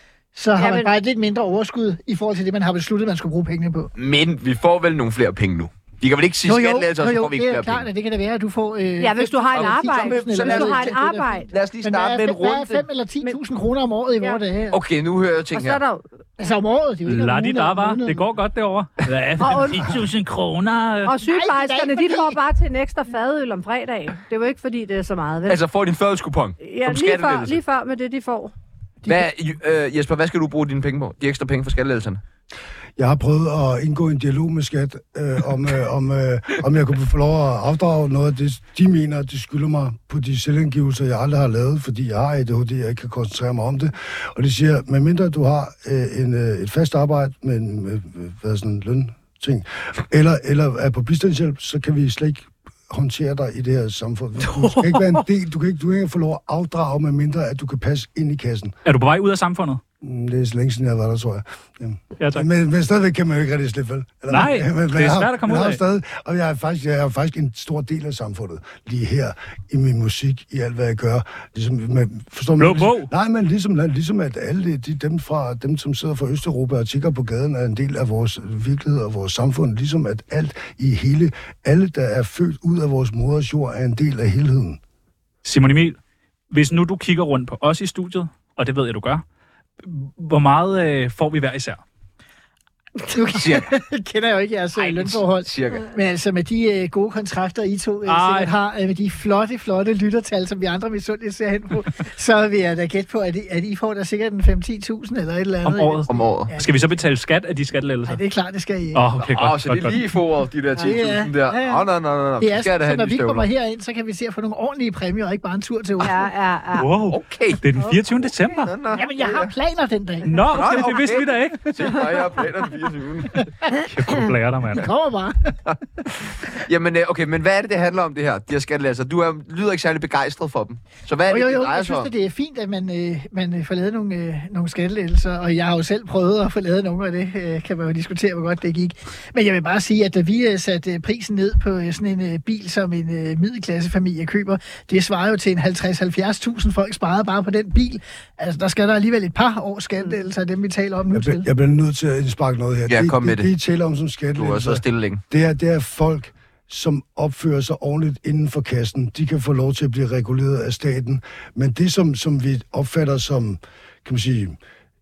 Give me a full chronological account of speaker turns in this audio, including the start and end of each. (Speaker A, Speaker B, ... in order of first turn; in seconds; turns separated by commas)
Speaker A: 0.3-3.9, Speaker B: 0.6-0.9, Speaker C: 4.0-7.9, Speaker A: 6.5-14.8, Speaker B: 9.0-11.5, Speaker C: 9.5-11.0, Speaker C: 11.5-12.9, Speaker C: 14.7-15.8, Speaker B: 15.5-16.1, Speaker A: 16.4-18.2, Speaker D: 17.1-21.1, Speaker B: 19.4-19.9, Speaker B: 21.1-25.6, Speaker A: 21.1-22.4, Speaker C: 25.5-27.6, Speaker B: 26.6-28.5, Speaker C: 29.1-32.2, Speaker E: 33.0-58.8, Speaker B: 54.6-55.0, Speaker D: 58.9-59.8, Speaker E: 60.0-84.8, Speaker D: 62.2-62.5, Speaker D: 64.3-65.8, Speaker D: 72.6-73.1, Speaker D: 85.4-86.0, Speaker D: 86.5-89.2, Speaker D: 89.8-91.8, Speaker A: 93.1-106.9, Speaker C: 93.3-93.7, Speaker C: 94.8-95.9, Speaker D: 98.1-98.5, Speaker D: 105.6-108.2, Speaker C: 106.1-106.5, Speaker A: 108.1-109.0, Speaker D: 108.9-110.0, Speaker C: 109.2-113.5, Speaker A: 110.8-111.8, Speaker A: 112.4-116.2, Speaker B: 116.0-116.9, Speaker D: 116.8-118.7, Speaker C: 117.1-117.6, Speaker C: 118.6-119.5, Speaker A: 118.9-120.8, Speaker D: 120.3-122.0, Speaker C: 120.5-123.4, Speaker D: 123.8-124.9, Speaker A: 124.7-125.6, Speaker C: 125.7-132.1, Speaker A: 131.3-151.5, Speaker E: 151.1-164.6, Speaker C: 152.9-153.5, Speaker C: 154.4-155.2